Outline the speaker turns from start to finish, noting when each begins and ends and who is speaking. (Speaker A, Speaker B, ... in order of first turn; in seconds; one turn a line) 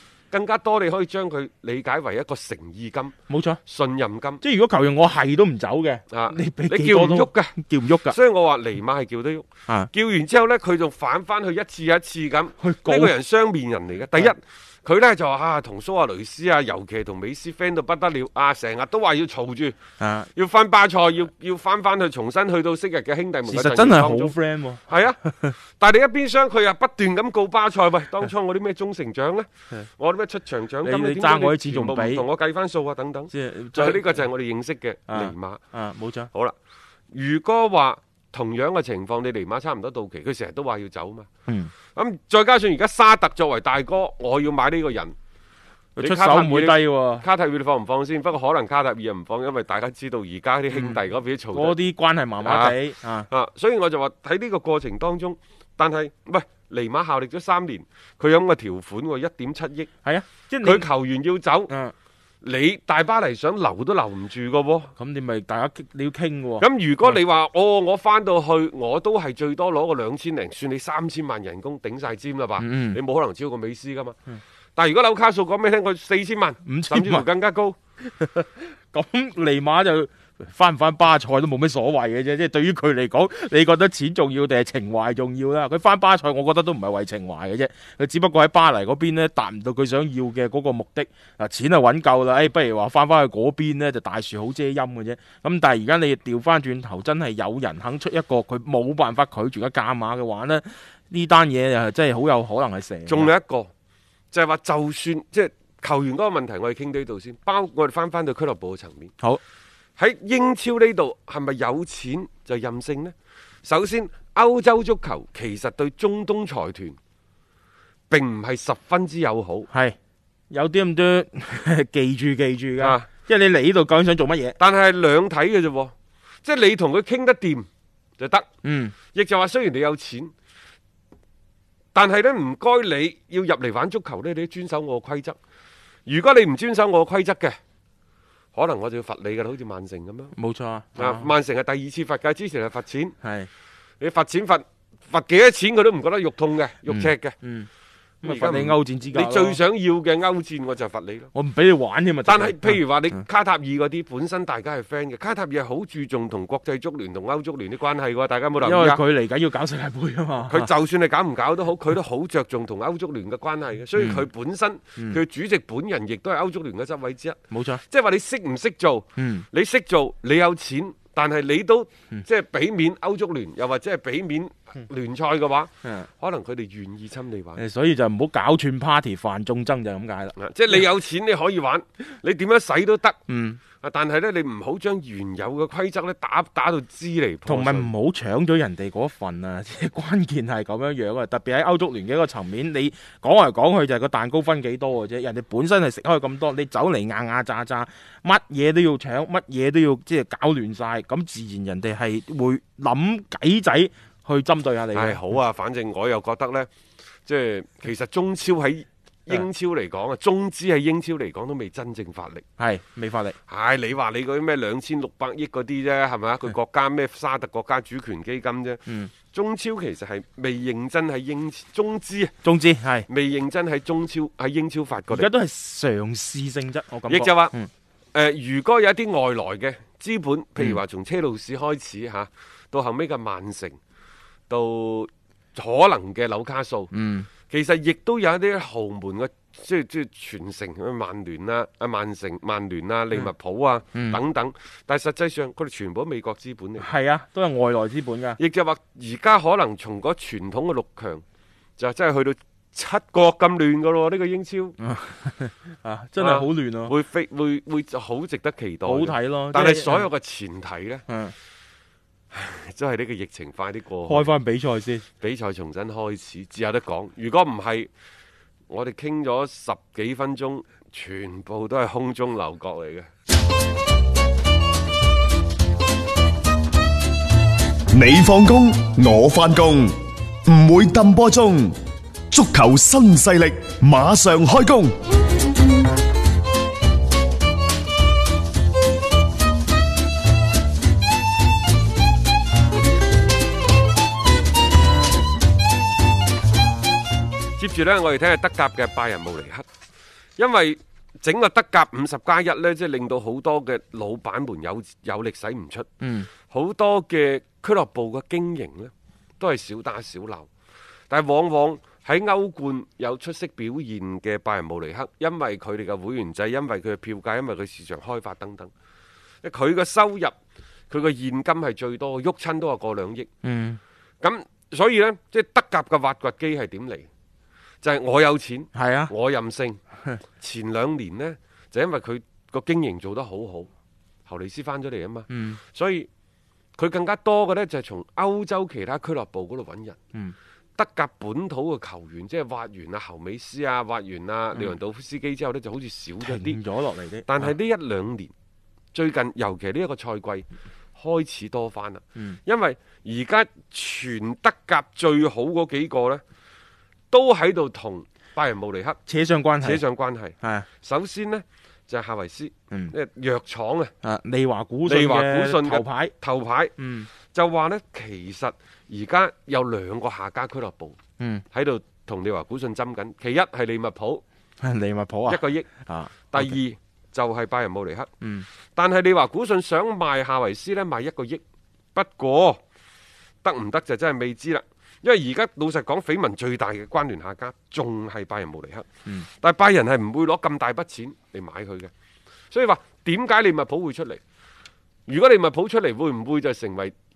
Speaker A: 0.3-3.1
Speaker B: 3.3-3.6
Speaker A: 3.6-4.4
Speaker B: 4.4-8.2
Speaker A: 6.1-7.6
Speaker A: 8.1-19.8
Speaker B: 12.6-13.1
Speaker B: 20.0-20.3
Speaker A: 20.4-24.3
Speaker B: 23.5-25.5
Speaker A: 24.9-35.6
Speaker B: 30.8-32.2
Speaker B: 33.3-34.1
Speaker B: 35.1-36.3
Speaker A: 37.1-41.3
Speaker B: 41.5-41.7
Speaker A: 41.9-45.1
Speaker A: 46.0-51.8
Speaker B: 46.0-47.2
Speaker B: 50.7-51.0
Speaker B: 51.5-53.3
Speaker A: 52.4-52.8
Speaker A: 53.3-59.9
Speaker B: 60.0-60.9
Speaker A: 60.6-61.7
Speaker B: 61.7-61.9
Speaker A: 62.4-64.9
Speaker B: 65.0-67.2
Speaker A: 66.6-74.2
Speaker B: 72.6-73.0
Speaker A: 74.8-77.8
Speaker B: 76.7-77.2
Speaker B: 78.2-103.3
Speaker A: 103.1-103.7
Speaker A: 104.3-109.1
Speaker A: 110.0-113.1
Speaker A: 113.6-117.0
Speaker A: 118.1-119.7
Speaker B: 119.7-120.0
Speaker B: 120.5-124.6
Speaker A: 122.8-123.0
Speaker A: 124.6-127.7
Speaker A: 128.2-128.5
Speaker B: 128.6-128.9
Speaker A: 129.1-130.3
Speaker A: 131.9-135.4
Speaker A: 136.1-137.6
Speaker A: 138.5-140.3
Speaker B: 140.3-141.3
Speaker A: 141.0-143.1
Speaker B: 143.2-143.5
Speaker A: 144.0-147.3
Speaker B: 146.9-147.7
Speaker B: 148.2-149.6
Speaker A: 148.2-151.3
Speaker B: 151.3-152.8
Speaker A: 152.2-159.0
Speaker B: 158.6-160.7
Speaker A: 160.5-177.6
Speaker B: 164.0-164.2
Speaker B: 167.5-167.8
Speaker B: 169.2-169.4
Speaker B: 177.6-180.4
Speaker A: 180.4-183.2
Speaker B: 183.3-183.6
Speaker A: 183.8-187.9
Speaker B: 187.4-205.2
Speaker A: 204.9-206.7
Speaker A: 207.2-212.4
Speaker B: 212.6-213.4
Speaker A: 213.5-222.3
Speaker B: 222.4-223.1
Speaker A: 223.1-225.3
Speaker B: 225.1-227.7
Speaker A: 227.1-227.5
Speaker A: 228.1-233.8
Speaker A: 234.5-236.9
Speaker B: 236.9-237.3
Speaker A: 237.5-246.9
Speaker B: 243.9-244.2
Speaker B: 246.8-248.4
Speaker A: 248.4-251.2
Speaker A: 251.8-254.8
Speaker B: 254.8-256.9
Speaker A: 256.2-261.0
Speaker B: 258.8-260.1
Speaker B: 261.1-261.3
Speaker A: 262.3-264.3
Speaker B: 264.1-265.0
Speaker A: 265.2-267.9
Speaker A: 268.7-273.1
Speaker C: 277.9-281.8
Speaker C: 282.3-285.0
Speaker A: 297.6-299.6
Speaker A: 300.4-305.9
Speaker B: 306.0-306.3
Speaker A: 306.4-310.5
Speaker A: 311.1-318.7
Speaker A: 319.4-320.3
Speaker A: 320.9-323.3
Speaker B: 323.4-323.8
Speaker A: 324.2-327.1
Speaker A: 327.8-329.8
Speaker B: 328.7-329.1
Speaker A: 330.4-333.7
Speaker A: 334.3-336.1
Speaker B: 335.3-335.6
Speaker A: 336.8-340.0
Speaker A: 340.8-346.6
Speaker B: 346.2-347.5
Speaker A: 347.3-348.3
Speaker A: 348.9-356.2
Speaker A: 357.1-359.0
Speaker B: 359.1-359.8
Speaker A: 359.6-363.9
Speaker B: 360.4-360.7
Speaker B: 364.0-366.1
Speaker A: 364.9-371.0
Speaker B: 366.8-367.1
Speaker B: 371.2-371.4
Speaker A: 371.5-374.2
Speaker B: 374.6-376.6
Speaker A: 375.3-375.7
Speaker A: 376.3-378.1
Speaker A: 378.8-381.4
Speaker A: 381.9-382.6
Speaker A: 383.4-391.9
Speaker A: 392.5-394.2
Speaker A: 395.1-396.9